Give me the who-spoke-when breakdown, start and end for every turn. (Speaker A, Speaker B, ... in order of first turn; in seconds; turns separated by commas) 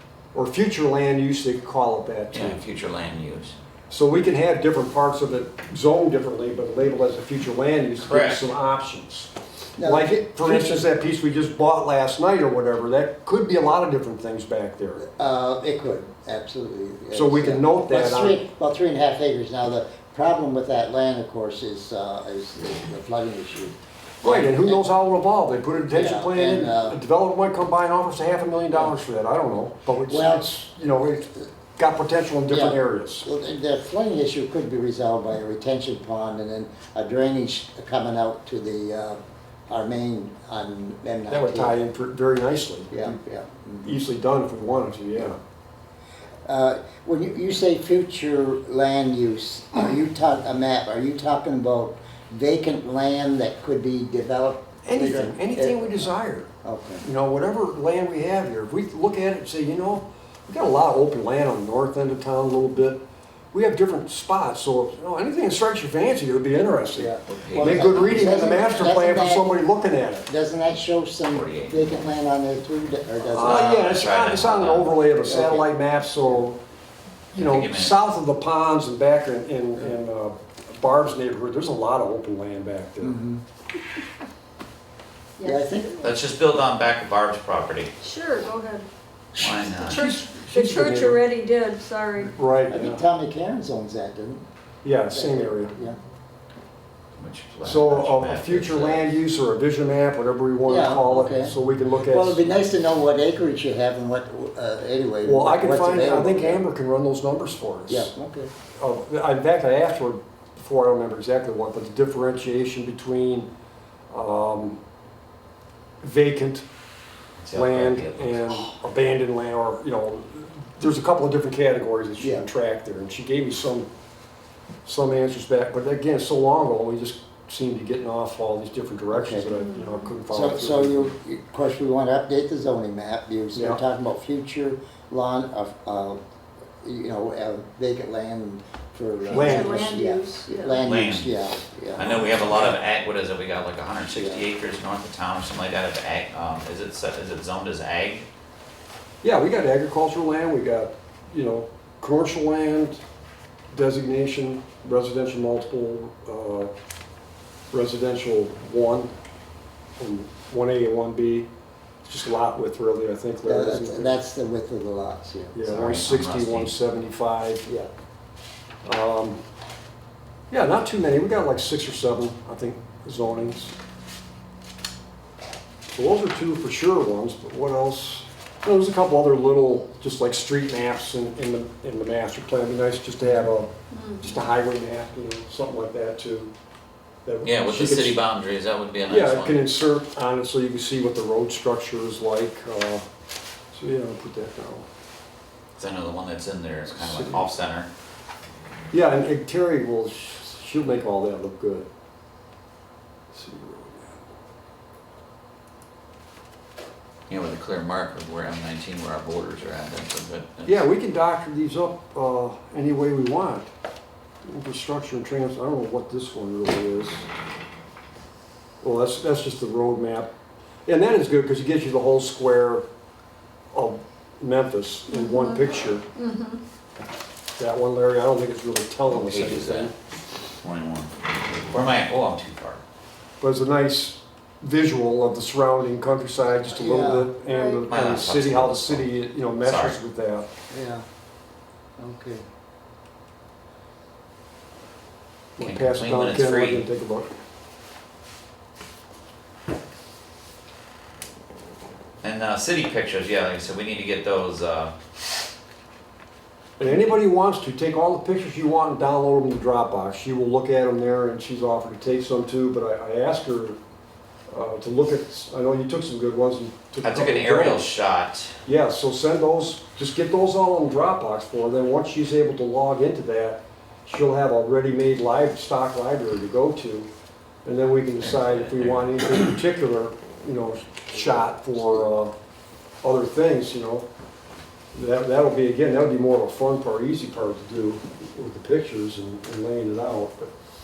Speaker A: 0.3-2.6, Speaker B: 2.3-3.5, Speaker A: 3.9-15.1, Speaker B: 8.0-8.4, Speaker C: 9.8-10.9, Speaker C: 15.1-24.8, Speaker A: 17.1-18.4, Speaker A: 24.2-33.3, Speaker C: 25.9-27.0, Speaker C: 30.0-30.5, Speaker C: 32.5-41.8, Speaker A: 41.3-43.1, Speaker C: 42.9-44.0, Speaker A: 43.8-45.4, Speaker C: 46.4-56.1, Speaker A: 54.8-56.5, Speaker C: 56.6-57.0, Speaker A: 57.0-63.0, Speaker A: 63.5-70.3, Speaker C: 66.9-69.6, Speaker B: 67.3-68.0, Speaker C: 70.2-73.7, Speaker B: 71.3-71.8, Speaker A: 73.3-76.6, Speaker B: 73.4-75.0, Speaker C: 75.2-75.7, Speaker B: 77.3-78.0, Speaker A: 77.3-83.2, Speaker C: 83.0-83.4, Speaker D: 85.4-85.9, Speaker C: 85.4-86.1, Speaker B: 86.0-87.9, Speaker D: 88.0-88.8, Speaker B: 89.3-90.0, Speaker C: 89.4-89.7, Speaker D: 89.7-92.3, Speaker A: 89.9-91.2, Speaker A: 92.2-93.0, Speaker C: 92.7-94.4, Speaker A: 94.8-95.7, Speaker C: 95.1-96.0, Speaker B: 97.2-99.0, Speaker A: 97.6-102.5, Speaker C: 100.7-106.6, Speaker A: 105.2-108.1, Speaker C: 107.9-108.5, Speaker A: 108.7-113.5, Speaker A: 114.1-114.8, Speaker A: 116.0-116.6, Speaker B: 117.4-118.7, Speaker A: 117.5-123.9, Speaker C: 122.2-122.5, Speaker A: 124.8-131.1, Speaker C: 129.1-129.5, Speaker D: 129.5-130.1, Speaker C: 130.3-136.2, Speaker A: 133.5-133.8, Speaker C: 136.8-142.7, Speaker A: 139.3-139.9, Speaker D: 139.3-140.8, Speaker B: 140.8-141.4, Speaker B: 141.9-148.2, Speaker C: 144.1-144.4, Speaker A: 149.2-153.0, Speaker A: 153.7-156.7, Speaker A: 157.7-159.1, Speaker A: 160.0-161.5, Speaker A: 162.0-164.2, Speaker C: 163.4-165.6, Speaker A: 165.5-167.7, Speaker B: 165.6-166.7, Speaker A: 168.8-169.4, Speaker A: 170.5-173.7, Speaker A: 175.9-186.5, Speaker D: 183.9-184.3, Speaker A: 187.2-188.2, Speaker B: 187.4-189.6, Speaker A: 189.1-193.1, Speaker A: 193.7-194.9, Speaker B: 195.8-197.9, Speaker A: 196.9-197.5, Speaker A: 198.9-201.9, Speaker A: 203.3-204.2, Speaker B: 207.3-210.8, Speaker A: 210.7-213.7, Speaker A: 214.4-217.3, Speaker A: 218.8-220.3, Speaker A: 220.8-222.8, Speaker A: 223.7-226.1, Speaker D: 225.1-225.6, Speaker D: 226.2-226.6, Speaker A: 227.6-229.9, Speaker B: 229.1-229.9, Speaker B: 230.6-232.8, Speaker A: 233.4-240.5, Speaker C: 236.7-237.3, Speaker D: 237.5-237.8, Speaker B: 237.8-239.1, Speaker B: 239.6-240.0, Speaker C: 240.7-241.0, Speaker C: 242.0-242.4, Speaker A: 245.6-247.3, Speaker B: 245.6-246.8, Speaker B: 252.2-254.9, Speaker A: 256.8-263.8, Speaker A: 264.5-267.9, Speaker B: 267.0-268.6, Speaker A: 268.6-277.1, Speaker A: 277.6-282.3, Speaker B: 278.2-279.1, Speaker A: 283.0-284.1, Speaker A: 284.9-290.5